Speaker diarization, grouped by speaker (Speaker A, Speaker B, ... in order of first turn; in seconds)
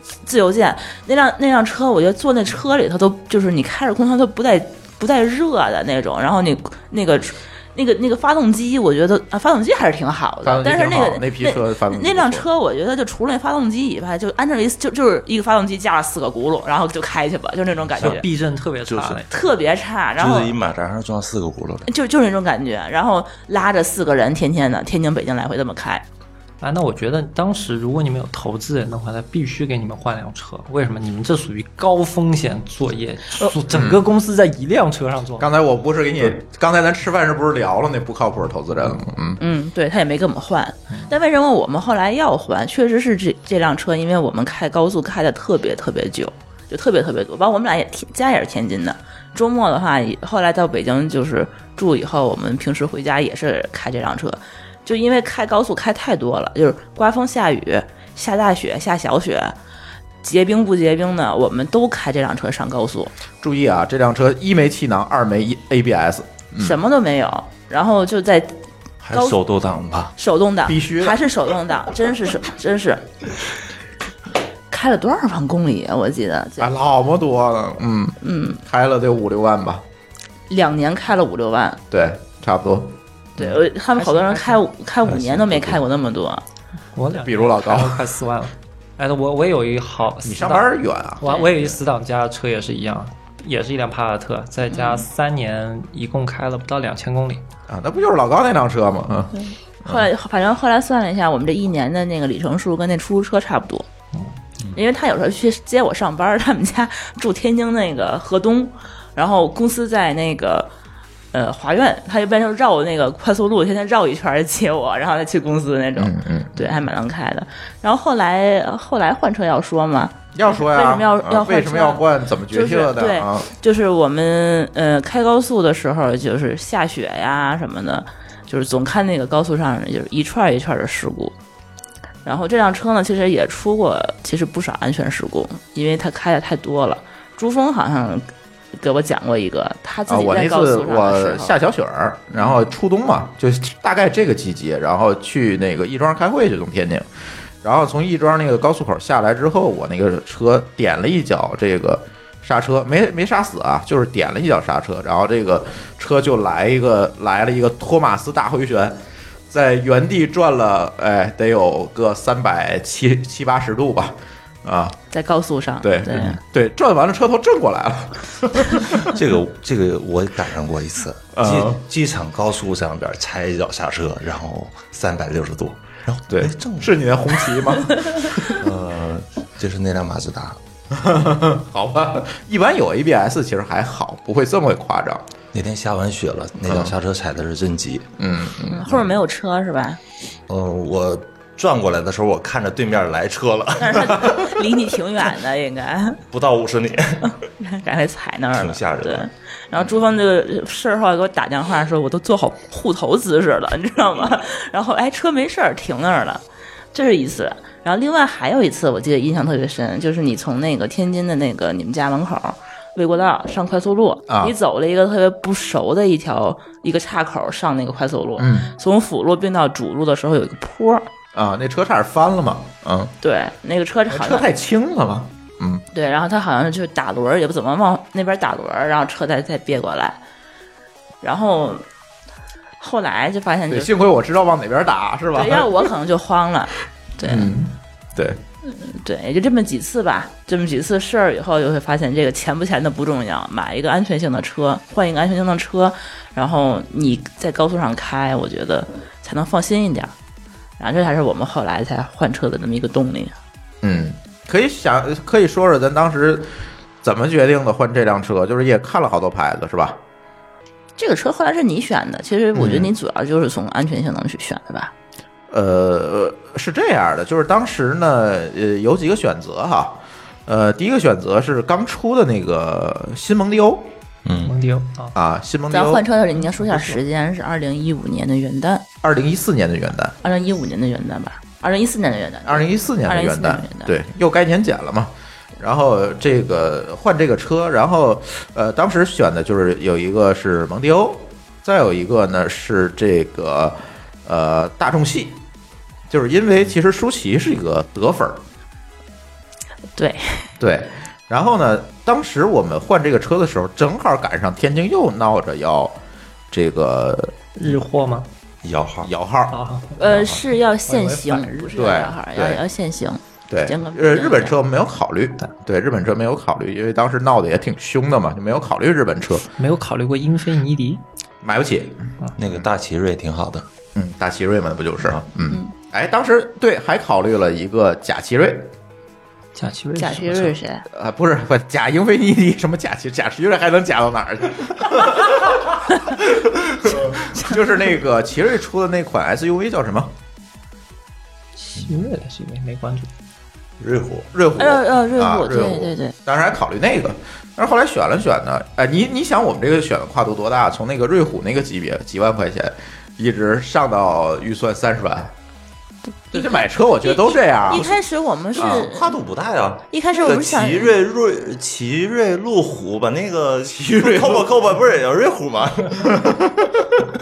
Speaker A: 0.2-18.2, 19.3-20.6, 21.9-26.0, 39.4-59.5, 60.2-63.1, 66.6-68.5, 69.1-69.4, 70.2-73.0, 74.7-76.7, 78.2-78.6, 80.5-81.8, 83.4-86.4, 91.2-91.5, 94.7-95.0, 99.4-103.9, 104.7-110.7, 111.3-131.3, 132.2-141.5, 165.1-166.4, 188.7-190.0, 193.8-196.2, 197.6-206.4, 206.9-221.1, 223.2-224.5, 225.9-230.2, 231.2-231.8, 232.8-234.0, 235.3-237.5, 238.6-250.1, 250.8-253.3, 261.0-264.9, 275.7-278.9, 280.2-283.9, 299.9-300.5, 310.0-314.6, 330.0-330.9, 344.6-346.1, 356.3-359.2, 359.9-360.9
Speaker B: 10.4-12.5, 33.7-34.0, 35.4-39.4, 63.4-66.8, 70.6-71.2, 76.6-79.8, 81.9-83.6, 87.2-88.1, 90.2-91.4, 97.7-100.1, 116.0-116.8, 120.3-123.5, 140.1-147.1, 147.6-159.0, 159.5-165.0, 165.8-169.1, 171.3-171.8, 176.3-178.6, 180.9-185.2, 186.7-186.9, 188.2-188.9, 214.3-214.5, 218.4-218.7, 221.3-223.1, 224.1-225.8, 233.7-235.9, 237.2-238.4, 253.8-260.0, 262.5-262.9, 265.5-273.9, 275.1-276.1, 279.0-280.1, 282.4-295.4, 296.1-298.4, 300.6-306.0, 306.5-307.4, 309.0-310.4, 311.7-312.6, 313.5-319.5, 321.4-322.7, 323.9-328.7, 330.9-340.1, 344.3-355.3, 356.3-358.0, 358.6-358.9, 363.7-364.5, 366.0-366.9
Speaker C: 18.0-18.2, 18.9-19.2, 20.2-21.9, 69.0-70.1, 85.0-85.8, 168.9-177.0, 178.4-180.6, 185.5-188.1, 190.5-194.6, 196.3-197.4, 198.5-199.3, 274.2-274.5, 308.6-309.1, 322.4-323.7, 343.8-344.3, 358.6-366.3
Speaker D: 18.0-19.3, 26.6-35.5, 84.0-84.6, 86.9-97.4, 274.4-275.1, 307.6-308.3, 309.5-310.3, 310.9-311.7, 319.6-321.0, 329.5-330.5, 341.6-343.1